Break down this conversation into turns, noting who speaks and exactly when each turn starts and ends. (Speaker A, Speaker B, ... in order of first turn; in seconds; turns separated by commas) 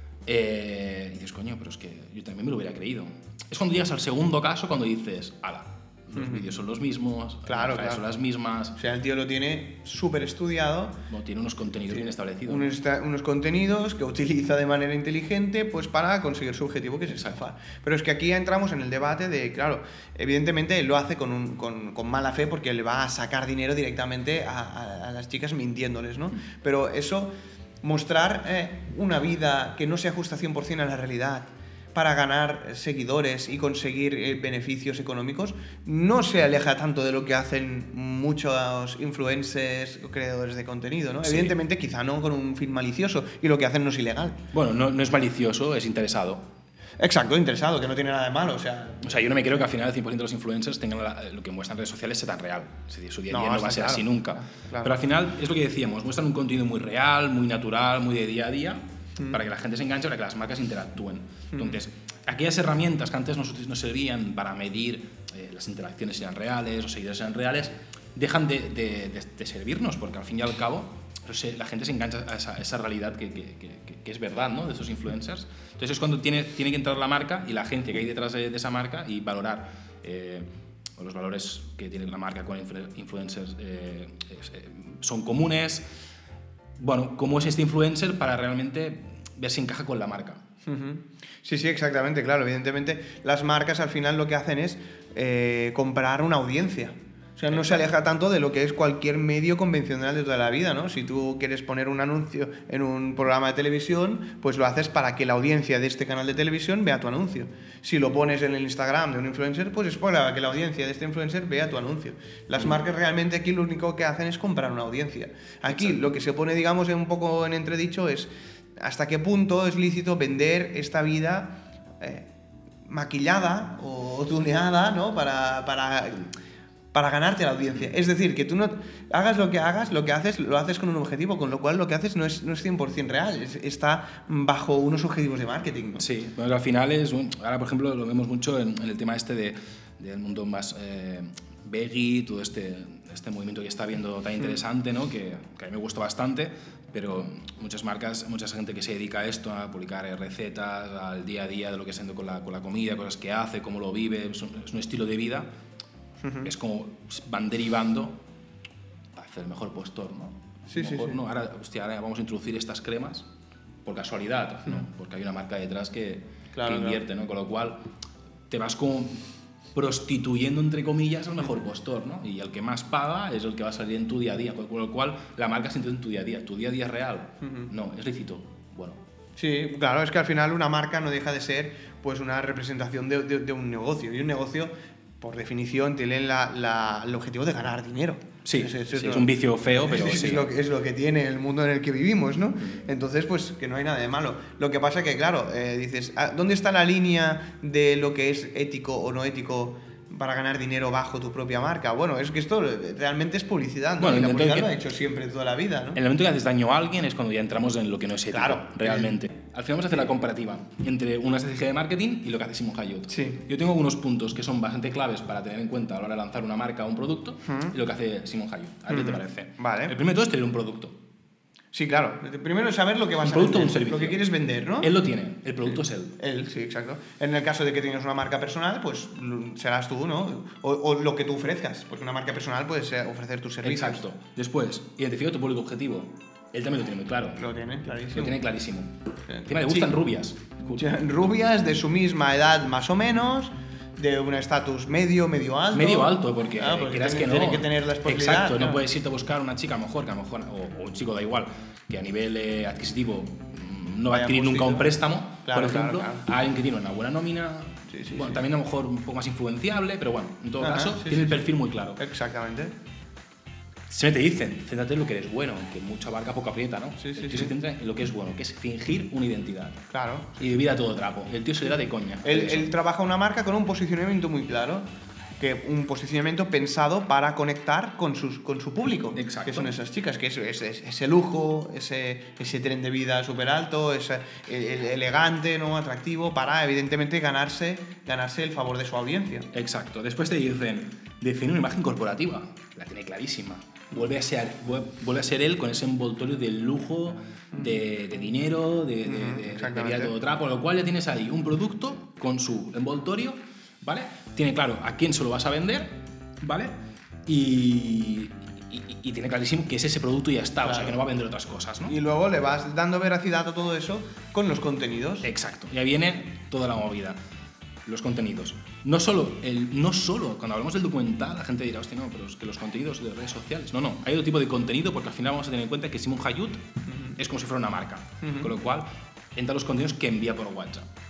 Speaker A: 0.2-8.8, Speaker B: 6.1-6.5, Speaker B: 7.5-8.0, Speaker B: 8.8-11.0, Speaker A: 11.1-12.7, Speaker B: 12.4-44.4, Speaker A: 17.1-17.4, Speaker A: 41.2-41.5, Speaker A: 44.5-46.4, Speaker B: 47.0-49.2, Speaker A: 49.0-85.8, Speaker B: 53.3-54.9, Speaker B: 61.5-61.8, Speaker A: 86.8-90.4, Speaker B: 90.7-122.3, Speaker A: 97.5-97.8, Speaker A: 115.7-116.0, Speaker B: 122.8-126.3, Speaker B: 126.9-136.0, Speaker A: 135.9-155.5, Speaker B: 156.2-156.5, Speaker A: 156.4-158.2, Speaker A: 159.1-163.3, Speaker B: 160.7-161.2, Speaker A: 163.8-167.9, Speaker B: 166.5-167.0, Speaker A: 168.5-179.0, Speaker B: 177.4-177.7, Speaker B: 179.4-206.0, Speaker A: 188.4-190.5, Speaker A: 204.0-204.7, Speaker A: 205.9-221.0, Speaker B: 208.3-209.2, Speaker B: 213.1-213.4, Speaker B: 217.5-217.7, Speaker B: 218.9-219.9, Speaker B: 221.7-224.9, Speaker A: 223.2-224.2, Speaker A: 224.8-226.2, Speaker B: 225.7-234.0, Speaker A: 233.6-237.4, Speaker B: 237.4-238.4, Speaker A: 238.1-238.9, Speaker B: 239.3-239.9, Speaker A: 239.4-241.0, Speaker B: 240.6-248.8, Speaker A: 245.7-262.0, Speaker B: 254.1-256.2, Speaker B: 257.9-258.4, Speaker B: 260.6-261.4, Speaker B: 261.9-262.7, Speaker A: 263.9-269.8, Speaker B: 267.0-267.5, Speaker B: 269.9-270.4, Speaker A: 270.4-272.7, Speaker B: 272.2-274.9, Speaker B: 275.4-289.5, Speaker A: 279.1-279.7, Speaker A: 289.5-306.7, Speaker B: 299.0-300.1, Speaker A: 307.2-311.9, Speaker B: 310.6-311.0, Speaker B: 311.9-315.3, Speaker A: 315.2-317.2, Speaker A: 317.9-326.6, Speaker B: 326.9-327.2, Speaker A: 327.1-330.9, Speaker B: 328.2-328.5